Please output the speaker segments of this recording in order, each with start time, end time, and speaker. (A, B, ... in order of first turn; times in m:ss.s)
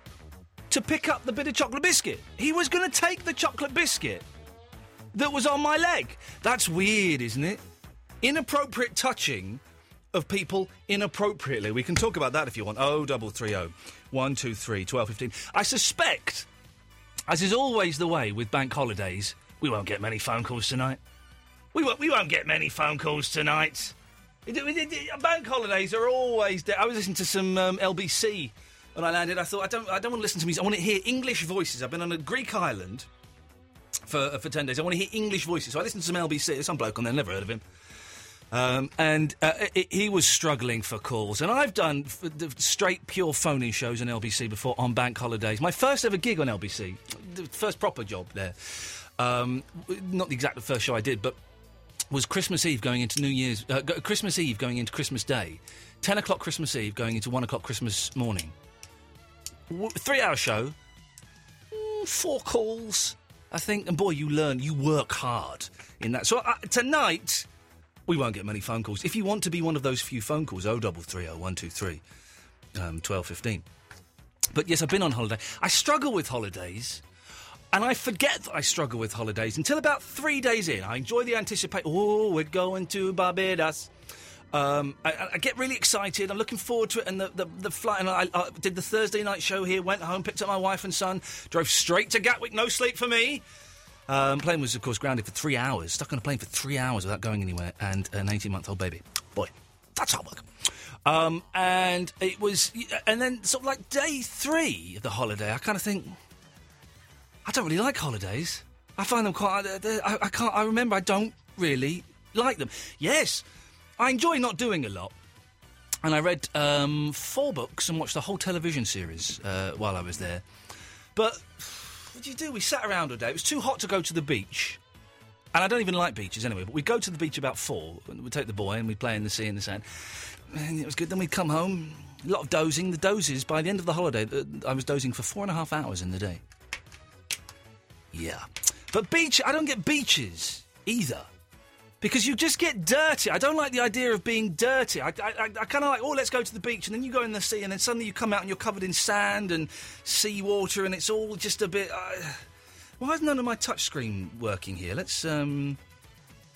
0:00.7-0:04.2 A
0:05.1-0:07.6 A
0:08.2-0:09.6 A
0:10.1-0:16.5 A
0:17.3-0:21.0 A
0:21.7-0:23.9 A
0:24.4-0:33.1 A
0:34.0-0:37.6 A
0:38.5-0:51.4 A
0:52.1-0:58.5 A
0:59.7-1:00.8 A
1:01.7-1:07.5 A
1:08.0-1:12.0 A
1:12.7-1:13.6 A
1:14.5-1:17.0 A
1:17.7-1:23.9 A
1:24.5-1:33.4 A
1:34.1-1:40.5 A
1:41.0-1:46.2 A
1:47.4-1:53.4 A
1:54.0-1:55.1 A
1:56.0-2:00.4 A
2:01.1-2:04.8 A
2:05.5-2:16.4 A
2:18.1-2:21.3 A
2:22.0-2:32.4 A
2:33.0-2:35.8 A